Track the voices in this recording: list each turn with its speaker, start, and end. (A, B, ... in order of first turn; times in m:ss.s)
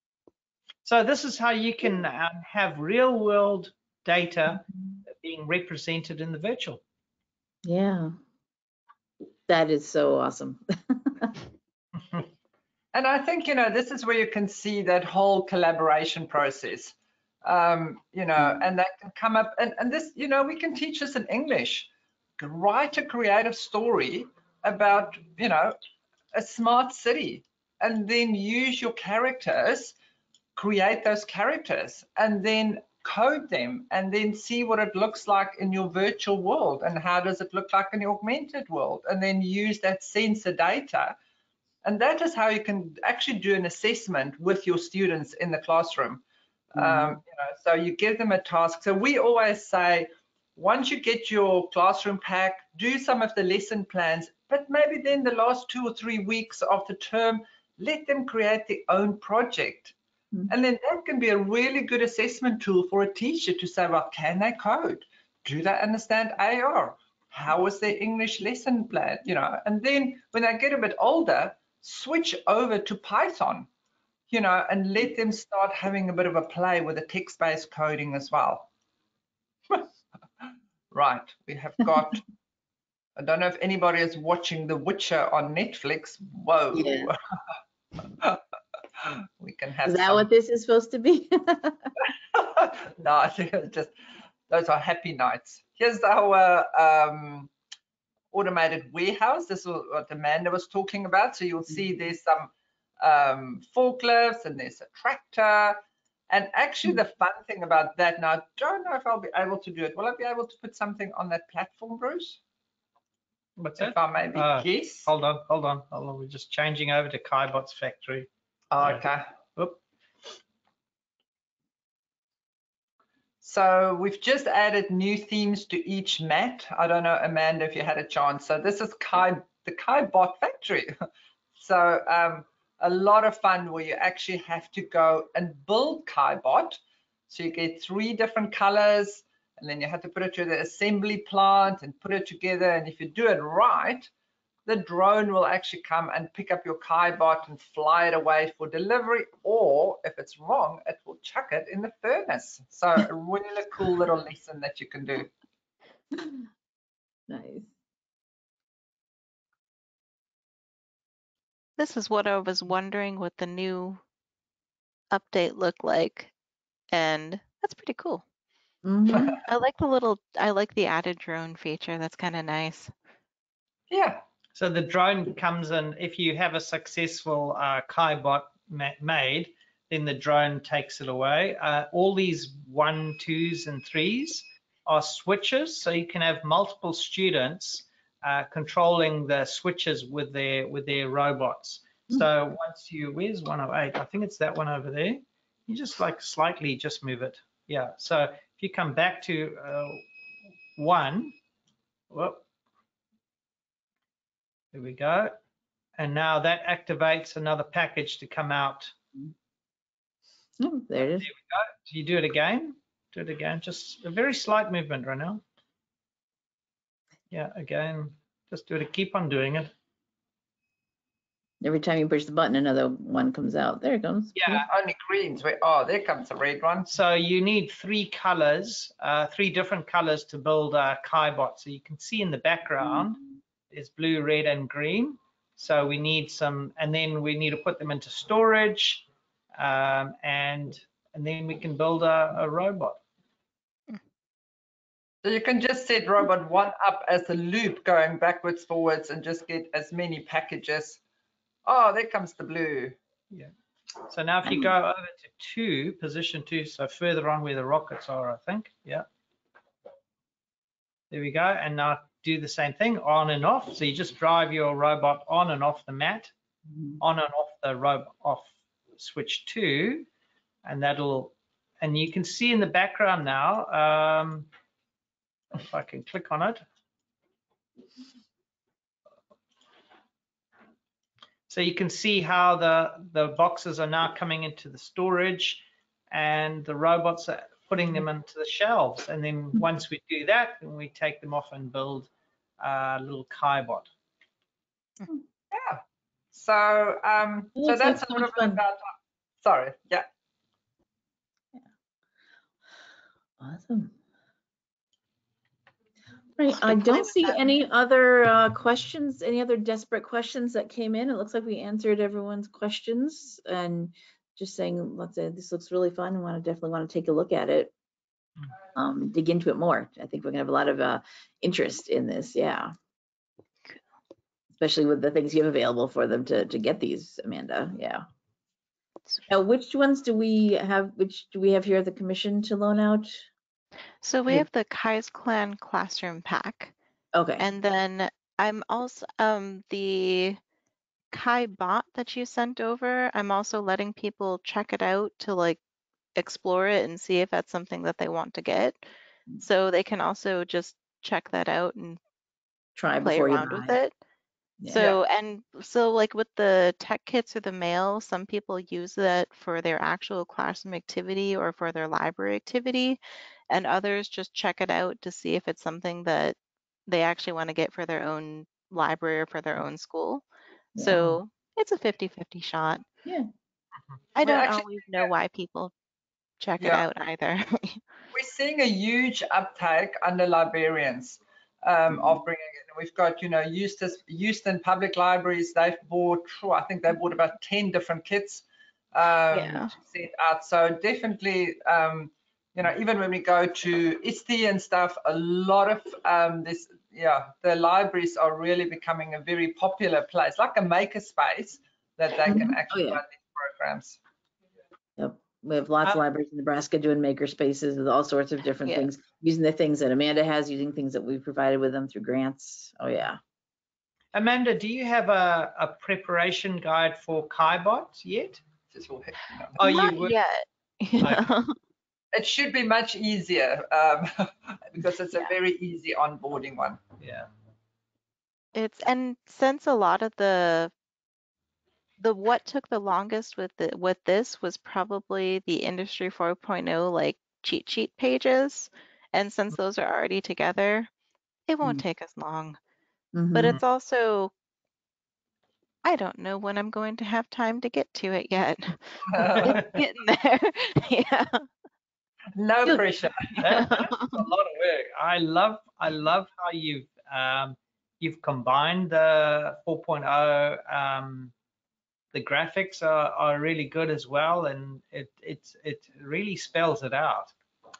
0:00.8-0:06.8 A
0:07.6-0:08.1 B
0:09.5-0:11.3 B
0:12.9-0:25.8 C
0:26.3-0:29.9 C
0:30.6-0:41.2 C
0:41.8-0:46.2 C
0:46.7-0:59.9 C
0:46.8-0:47.2 B
1:00.5-1:13.7 C
1:14.3-1:18.7 C
1:20.9-1:22.2 C
1:23.2-1:27.2 C
1:26.7-1:27.1 B
1:29.0-1:30.3 C
1:29.8-1:31.9 B
1:32.3-1:33.9 C
1:34.5-1:37.5 C
1:38.3-1:45.8 C
1:46.3-1:52.4 C
1:53.6-1:58.3 A
1:53.8-1:55.1 C
1:58.7-1:59.2 C
2:03.4-2:10.9 C
2:11.6-2:24.1 C
2:24.6-2:35.3 C
2:37.3-2:37.7 B
2:41.8-2:44.0 D
2:45.1-2:46.3 D
2:46.9-2:48.2 D
2:48.8-2:49.4 B
2:49.4-2:52.9 D
2:53.9-2:54.2 C
2:54.5-3:20.0 A
3:20.8-3:21.3 A
3:22.1-3:22.4 A
3:24.7-3:25.3 A
3:26.0-3:28.9 A
3:30.6-3:31.3 B
3:31.2-3:35.4 A
3:37.3-3:39.7 A
3:41.6-3:44.6 B
3:44.3-3:44.6 A
3:44.6-3:46.9 C
3:46.8-3:59.0 A
3:59.6-4:03.0 A
4:05.2-4:11.0 C
4:11.6-4:13.0 C
4:14.0-4:19.0 A
4:14.5-4:14.7 B
4:21.1-4:26.3 A
4:27.0-4:30.1 A
4:30.6-4:34.5 A
4:35.5-4:36.6 A
4:41.5-4:53.9 A
4:55.5-4:55.8 C
4:56.3-5:00.1 C
4:57.6-4:58.6 B
5:03.4-5:03.9 B
5:06.4-5:17.7 B
5:06.5-5:07.4 D
5:18.8-5:22.7 B
5:24.6-5:28.0 B
5:29.3-5:33.2 B
5:34.0-5:36.7 D
5:37.1-5:37.4 B
5:37.4-5:40.4 D
5:41.1-5:45.6 D
5:46.2-5:48.8 D
5:49.4-5:52.0 D
5:52.8-5:53.8 B
5:53.0-5:53.9 D
5:54.6-5:55.0 B
5:54.7-6:03.0 D
6:03.5-6:10.2 D
6:10.8-6:11.2 B
6:10.8-6:12.8 D
6:14.2-6:15.7 D
6:14.2-6:15.1 C
6:16.4-6:17.8 D
6:16.6-6:16.8 C
6:18.1-6:44.0 C
6:29.3-6:29.7 D
6:42.3-6:43.0 B
6:45.0-6:53.2 B
6:48.6-6:48.9 D
6:54.1-6:58.4 A
6:58.7-6:59.6 C
6:59.6-7:00.1 A
6:59.6-7:01.6 D
7:01.0-7:01.3 A
7:02.1-7:06.8 C
7:07.0-7:07.3 A
7:08.5-7:10.7 D
7:12.0-7:20.9 D
7:21.5-7:22.6 D
7:23.1-7:23.6 B
7:23.3-7:24.3 D
7:25.8-7:31.5 D
7:29.1-7:29.7 C
7:29.3-7:29.7 A
7:32.3-7:33.7 C
7:33.4-7:41.3 A
7:33.4-7:34.2 D
7:42.1-7:47.3 A